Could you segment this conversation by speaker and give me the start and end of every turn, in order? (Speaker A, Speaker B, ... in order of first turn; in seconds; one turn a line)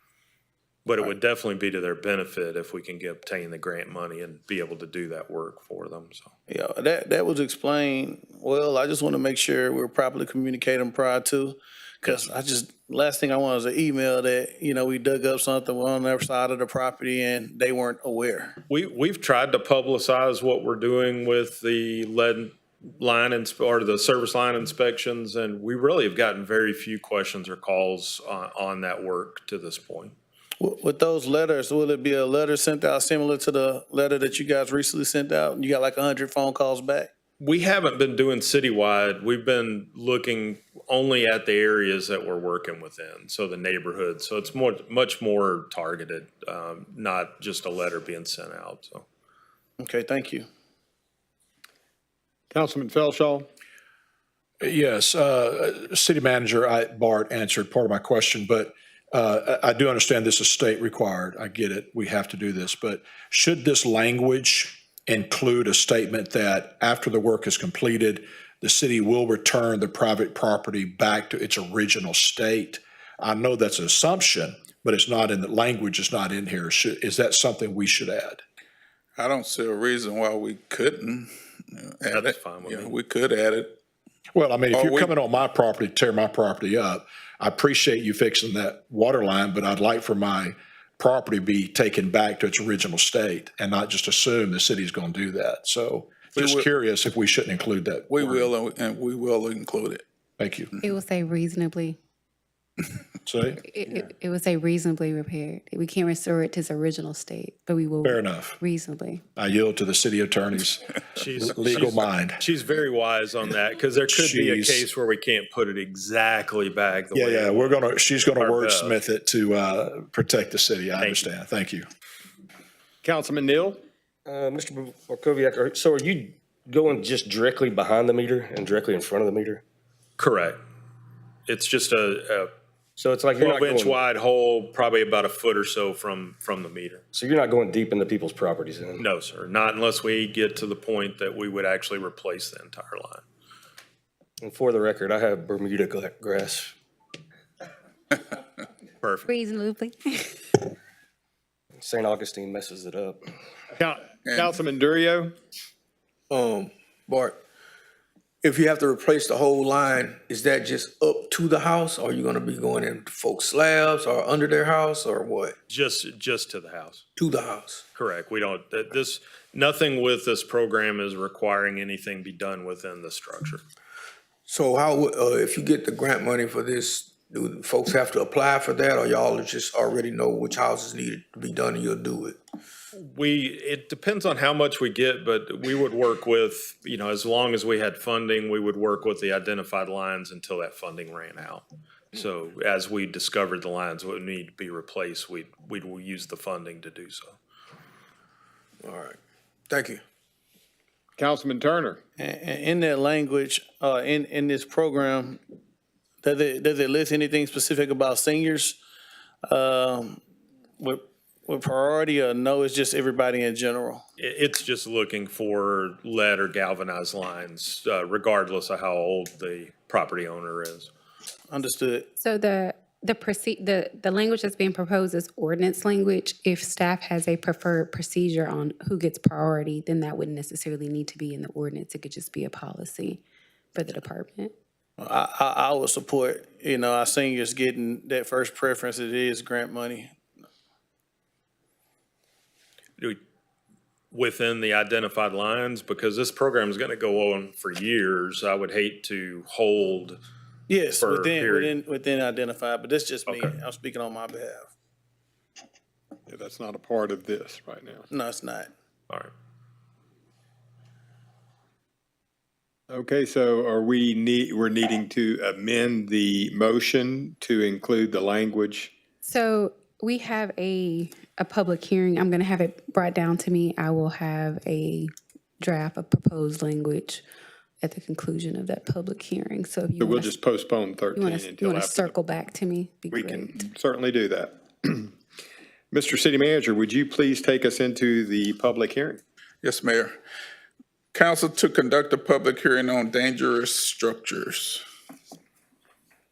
Speaker A: 0.9-6.3
Speaker B: 6.5-18.6
Speaker A: 18.7-30.1
Speaker B: 30.6-37.1
Speaker A: 37.4-49.1
Speaker B: 49.8-50.5
Speaker C: 52.5-53.5
Speaker D: 54.6-78.4
Speaker E: 79.2-83.8
Speaker A: 82.1-82.9
Speaker D: 84.3-98.5
Speaker E: 84.7-85.1
Speaker E: 96.4-96.7
Speaker E: 98.1-100.0
Speaker D: 100.4-100.7
Speaker F: 100.8-102.0
Speaker D: 103.2-103.6
Speaker F: 103.6-109.2
Speaker D: 108.0-108.6
Speaker D: 109.4-112.4
Speaker A: 111.2-117.8
Speaker D: 114.1-114.9
Speaker D: 117.1-121.9
Speaker A: 118.3-119.0
Speaker A: 121.0-121.3
Speaker C: 123.0-123.8
Speaker G: 124.3-129.6
Speaker A: 130.2-130.6
Speaker A: 131.5-132.5
Speaker G: 133.0-134.0
Speaker A: 133.4-137.0
Speaker G: 137.1-139.0
Speaker A: 139.0-143.2
Speaker G: 144.4-146.7
Speaker A: 149.0-149.3
Speaker F: 149.3-150.4
Speaker G: 151.8-153.2
Speaker C: 153.8-155.3
Speaker E: 154.2-154.6
Speaker H: 156.3-157.4
Speaker H: 158.4-165.6
Speaker A: 165.7-167.0
Speaker H: 167.2-167.8
Speaker A: 167.9-173.6
Speaker H: 174.5-182.4
Speaker A: 183.0-197.4
Speaker H: 198.8-199.2
Speaker H: 199.7-200.0
Speaker C: 201.2-202.0
Speaker B: 202.2-205.4
Speaker B: 206.2-208.8
Speaker B: 209.4-210.2
Speaker B: 210.8-214.0
Speaker A: 214.2-220.9
Speaker B: 221.5-222.1
Speaker F: 222.2-233.2
Speaker F: 233.7-234.5
Speaker B: 235.0-240.2
Speaker A: 244.1-250.2
Speaker B: 250.7-254.7
Speaker A: 251.0-251.7
Speaker A: 253.3-253.5
Speaker C: 256.3-258.1
Speaker B: 258.1-258.7
Speaker C: 262.9-268.9
Speaker F: 269.2-277.2
Speaker F: 277.8-280.4
Speaker C: 280.0-282.2
Speaker F: 281.1-283.5
Speaker C: 283.1-285.1
Speaker C: 285.9-289.2
Speaker E: 289.6-290.2
Speaker E: 291.1-294.9